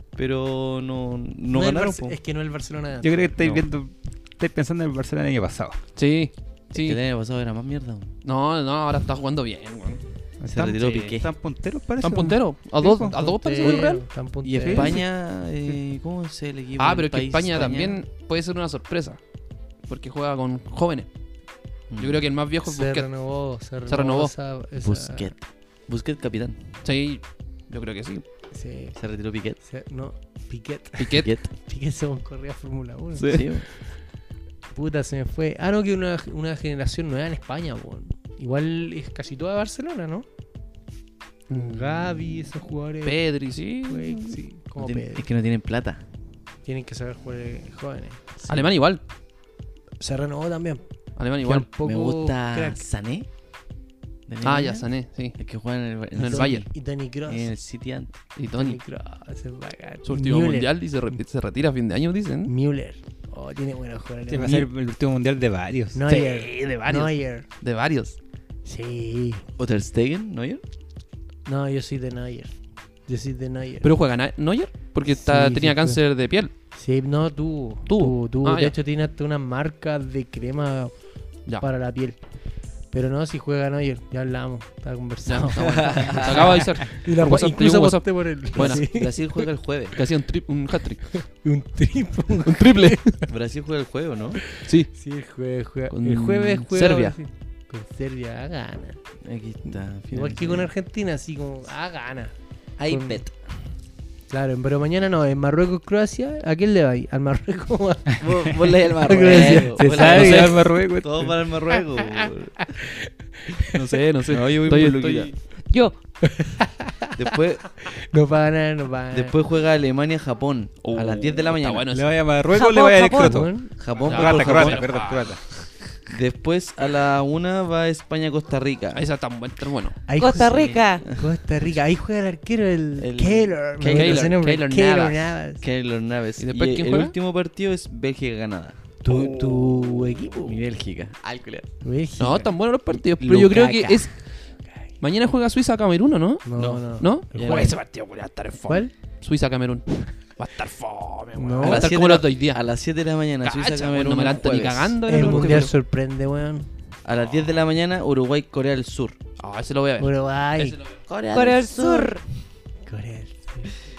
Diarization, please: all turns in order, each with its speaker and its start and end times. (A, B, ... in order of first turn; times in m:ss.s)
0:00.1-0:02.2 A
0:01.5-0:03.6 B
0:03.0-0:05.8 C
0:06.0-0:07.0 D
0:06.7-0:08.1 A
0:08.2-0:10.0 D
0:10.4-0:13.2 C
0:10.5-0:11.3 A
0:12.0-0:14.0 D
0:13.0-0:15.0 B
0:13.6-0:18.0 A
0:14.6-0:15.0 C
0:16.8-0:19.2 D
0:19.8-0:21.1 D
0:21.9-0:22.2 A
0:22.0-0:23.1 D
0:22.6-0:25.3 B
0:23.8-0:24.3 D
0:24.8-0:26.7 A
0:26.8-0:28.2 D
0:28.5-0:29.0 B
0:29.0-0:29.6 A
0:29.6-0:33.7 B
0:31.0-0:31.3 D
0:31.1-0:31.4 A
0:33.2-0:33.6 A
0:34.7-0:40.2 B
0:41.5-0:42.5 D
0:41.5-0:45.2 B
0:43.0-0:44.4 D
0:44.8-0:46.0 A
0:46.6-0:48.7 B
0:48.4-0:49.0 D
0:50.0-0:50.8 B
0:51.2-0:51.7 D
0:51.4-0:52.8 B
0:51.7-0:53.3 A
0:54.3-0:56.7 A
0:54.4-0:55.4 D
0:56.2-0:56.7 D
0:56.3-0:57.5 B
0:57.2-0:58.1 A
0:58.4-0:58.8 D
0:58.5-1:00.7 B
1:00.0-1:02.5 D
1:02.5-1:04.7 B
1:04.3-1:06.0 C
1:05.9-1:07.4 B
1:06.1-1:08.2 D
1:08.6-1:09.4 B
1:09.6-1:10.6 A
1:11.4-1:12.5 B
1:13.1-1:13.9 B
1:13.8-1:16.5 D
1:15.1-1:16.0 B
1:16.7-1:21.0 B
1:17.9-1:18.7 D
1:21.6-1:22.2 B
1:22.9-1:29.4 B
1:25.2-1:28.9 D
1:25.6-1:26.7 A
1:28.5-1:30.0 A
1:29.9-1:31.1 D
1:31.1-1:33.2 B
1:32.4-1:33.2 D
1:33.3-1:34.4 A
1:34.6-1:34.9 D
1:34.9-1:39.0 B
1:35.9-1:37.2 D
1:39.2-1:40.7 A
1:39.7-1:42.3 B
1:42.8-1:43.3 A
1:42.9-1:43.2 B
1:44.3-1:48.3 B
1:48.2-1:52.8 A
1:48.8-1:50.6 B
1:49.5-1:51.3 C
1:50.1-1:50.5 D
1:51.7-1:53.8 B
1:53.7-1:55.3 D
1:54.2-1:55.3 A
1:55.7-1:56.0 E
1:56.2-1:57.1 B
1:57.2-1:57.6 A
1:57.8-1:59.3 B
1:59.1-2:01.8 A
2:00.8-2:02.1 D
2:01.9-2:05.4 C
2:02.5-2:03.4 E
2:03.1-2:04.0 B
2:03.8-2:05.0 A
2:04.0-2:05.4 D
2:06.0-2:09.0 A
2:08.9-2:10.0 D
2:10.1-2:15.6 B
2:10.2-2:11.0 E
2:10.4-2:11.3 A
2:13.0-2:14.4 A
2:13.8-2:15.2 D
2:15.6-2:19.8 A
2:16.4-2:17.1 D
2:19.0-2:20.6 B
2:20.4-2:21.7 A
2:21.8-2:22.5 B
2:22.2-2:24.2 D
2:23.2-2:24.1 A
2:25.0-2:32.6 D
2:26.4-2:27.7 B
2:26.6-2:26.8 A
2:27.3-2:27.7 A
2:31.4-2:31.9 B
2:31.6-2:35.7 A
2:33.4-2:35.7 D
2:35.0-2:36.7 B
2:37.0-2:39.2 A
2:39.4-2:40.9 D
2:40.0-2:40.8 B
2:41.1-2:42.2 A
2:41.3-2:42.2 E
2:42.8-2:43.7 B